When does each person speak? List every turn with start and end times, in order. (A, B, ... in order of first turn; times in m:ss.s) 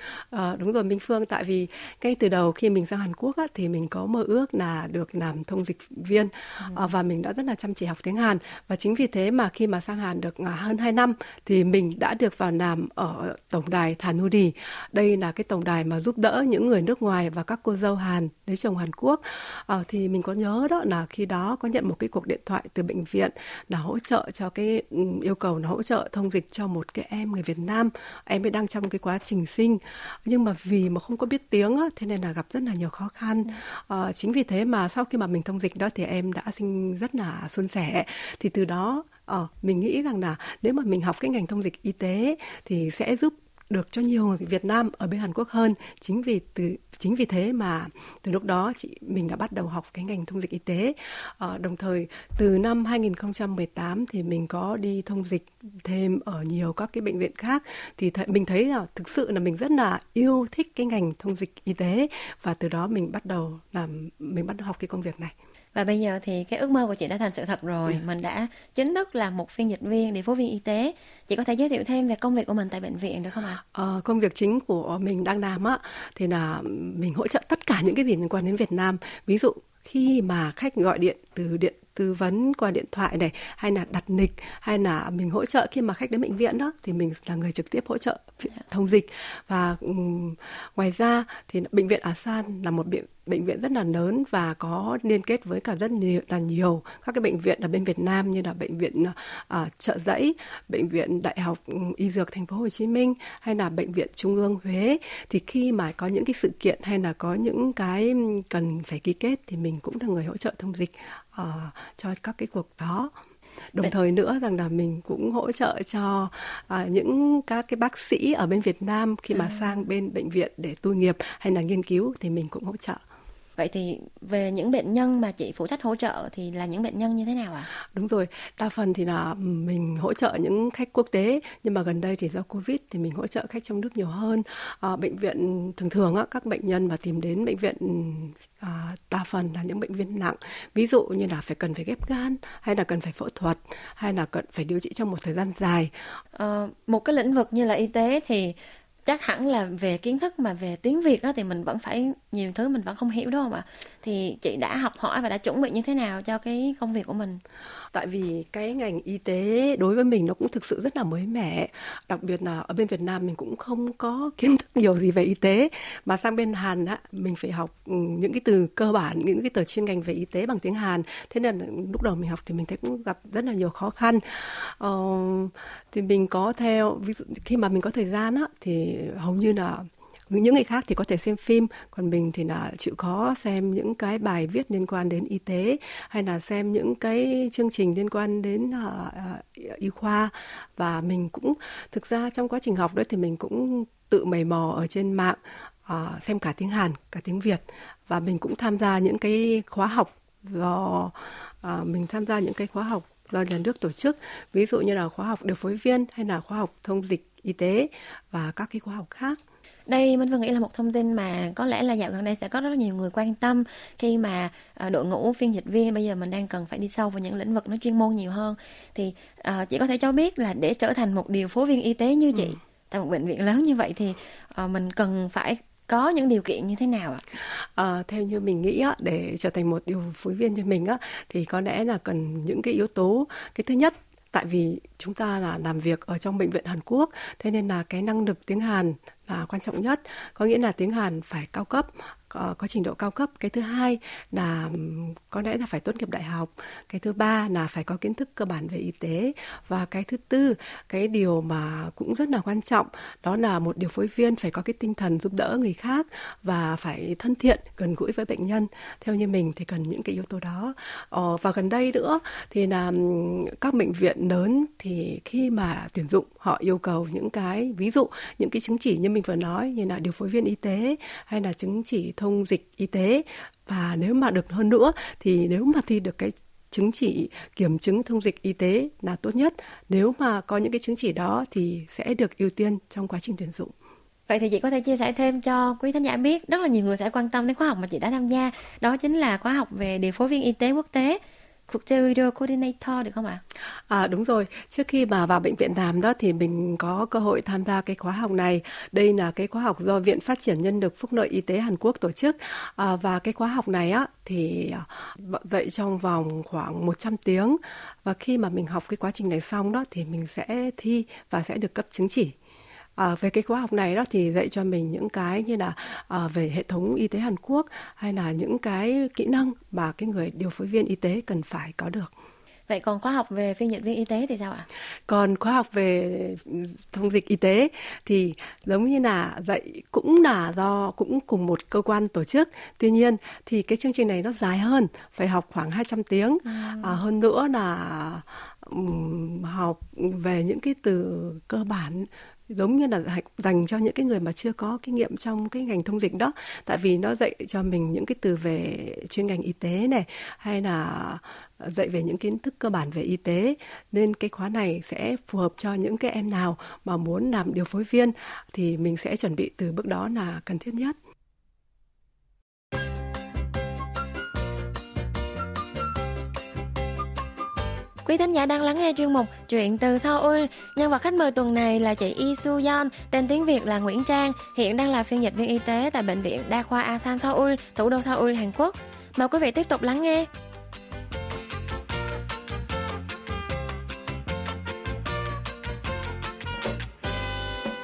0:00.3-1:05.3 A
1:05.7-1:13.6 B
1:13.7-1:53.1 A
1:53.7-2:03.0 A
1:59.3-1:59.8 B
2:03.6-2:07.7 B
2:07.9-2:25.9 A
2:26.3-2:37.4 B
2:37.9-3:29.4 A
3:29.9-3:47.2 B
3:47.7-4:43.7 A
4:44.3-4:53.4 B
4:53.9-5:12.3 A
5:13.0-5:22.1 A
5:22.7-5:24.7 B
5:25.1-6:01.0 A
5:36.4-5:37.0 B
6:08.0-6:20.3 B